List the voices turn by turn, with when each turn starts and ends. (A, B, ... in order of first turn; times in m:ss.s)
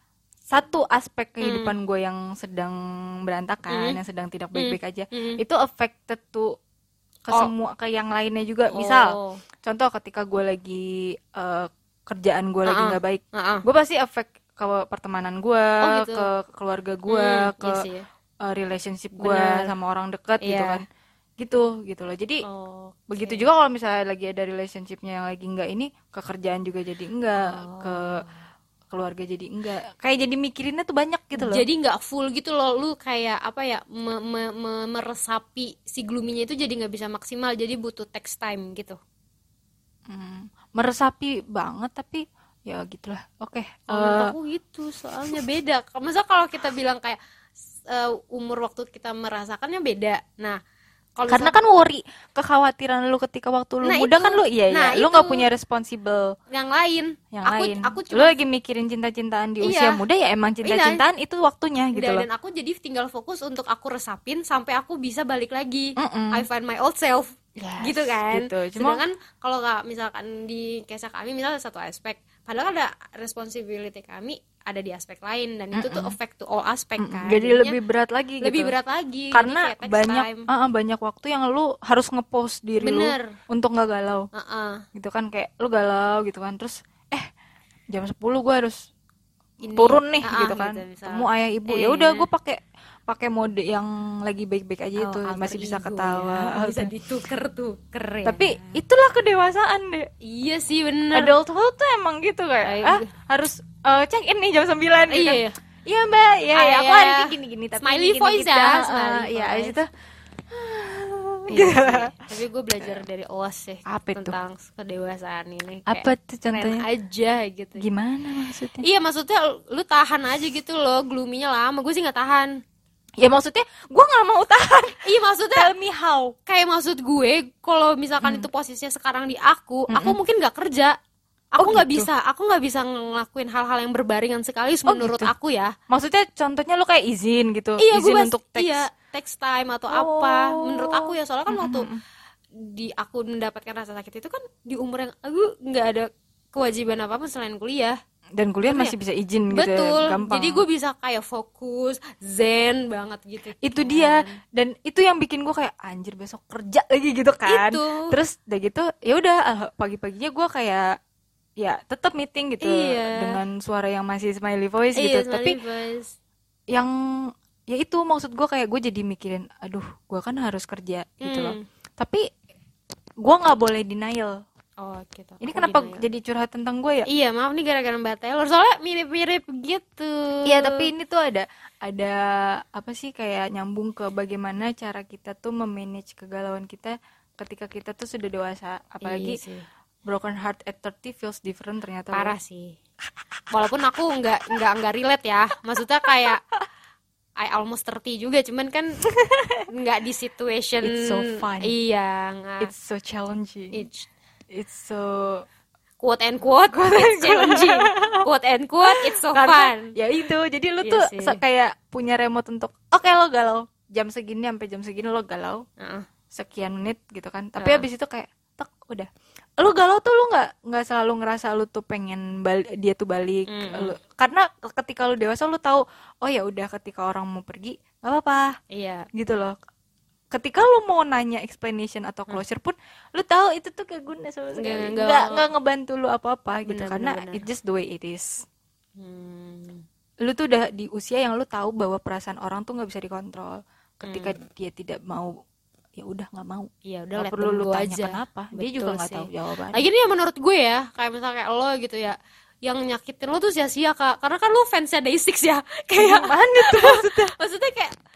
0:00.5-0:06.5 A
0:01.4-0:01.7 B
0:03.7-0:04.0 B
0:04.6-0:05.4 B
0:07.3-0:17.8 A
0:08.7-0:09.4 B
0:12.7-0:13.6 B
0:15.8-0:16.3 B
0:17.1-0:18.1 B
0:18.4-0:20.9 A
0:19.2-0:19.7 B
0:20.4-0:20.8 B
0:21.4-0:22.4 A
0:22.4-0:23.5 B
0:23.1-0:28.2 A
0:27.4-0:28.4 B
0:28.9-0:31.6 A
0:31.4-0:39.0 B
0:40.1-0:44.3 A
0:43.9-0:47.2 B
0:47.9-0:50.6 B
0:51.2-0:51.6 B
0:51.3-0:56.3 A
0:53.8-0:55.5 B
0:56.5-0:58.4 B
0:57.3-1:02.3 A
0:59.6-1:00.0 B
1:00.6-1:01.0 B
1:01.9-1:17.8 B
1:06.0-1:06.4 A
1:07.6-1:09.0 A
1:15.7-1:16.2 A
1:17.0-1:18.8 A
1:18.4-1:20.5 B
1:19.3-1:24.3 A
1:22.8-1:23.4 B
1:24.3-1:24.8 B
1:24.9-1:27.3 A
1:27.9-1:28.9 A
1:29.6-1:32.3 B
1:29.8-1:36.9 A
1:35.0-1:38.8 B
1:38.2-1:40.1 A
1:40.2-1:41.3 B
1:41.1-1:49.9 A
1:42.6-1:43.1 B
1:45.1-1:45.6 B
1:46.6-1:49.8 B
1:50.5-1:52.1 A
1:51.5-1:57.9 B
1:53.9-1:54.4 A
1:55.9-1:56.9 A
1:57.8-1:58.9 A
1:58.8-2:02.6 B
2:03.2-2:05.0 A
2:05.0-2:05.7 B
2:05.5-2:06.4 A
2:06.5-2:11.0 B
2:08.2-2:08.5 A
2:09.9-2:10.2 A
2:11.5-2:15.7 B
2:11.6-2:12.1 A
2:14.9-2:15.3 A
2:15.9-2:18.8 A
2:17.8-2:21.9 B
2:19.9-2:22.0 A
2:22.5-2:28.0 B
2:28.4-2:30.6 A
2:28.7-2:29.0 B
2:29.5-2:34.4 B
2:33.6-2:41.0 A
2:37.5-2:38.2 B
2:41.6-2:45.6 A
2:42.6-2:43.4 B
2:45.0-2:46.1 B
2:46.7-2:52.2 A
2:51.2-2:51.6 B
2:53.2-2:54.4 A
2:54.8-2:56.1 B
2:55.4-2:57.1 A
2:57.1-3:00.9 B
3:00.5-3:09.4 A
3:09.0-3:09.7 B
3:10.1-3:12.4 A
3:12.1-3:12.8 B
3:13.5-3:16.4 B
3:16.0-3:16.3 A
3:17.4-3:19.0 B
3:19.1-3:19.7 A
3:19.7-3:22.7 B
3:20.8-3:21.8 A
3:22.6-3:23.8 A
3:23.7-3:24.1 B
3:24.5-3:25.5 A
3:26.0-3:30.0 B
3:26.7-3:28.3 A
3:28.9-3:35.6 A
3:30.8-3:31.4 B
3:35.8-3:36.1 B
3:36.3-3:48.6 A
3:37.6-3:37.9 B
3:43.5-3:44.0 B
3:48.7-3:49.1 B
3:49.1-3:49.6 A
3:50.3-3:58.5 A
3:54.6-3:55.4 B
3:56.7-3:57.5 B
3:59.0-3:59.8 B
4:00.2-4:05.3 A
4:04.0-4:04.4 B
4:06.0-4:09.8 A
4:06.9-4:18.0 B
4:16.0-4:17.4 A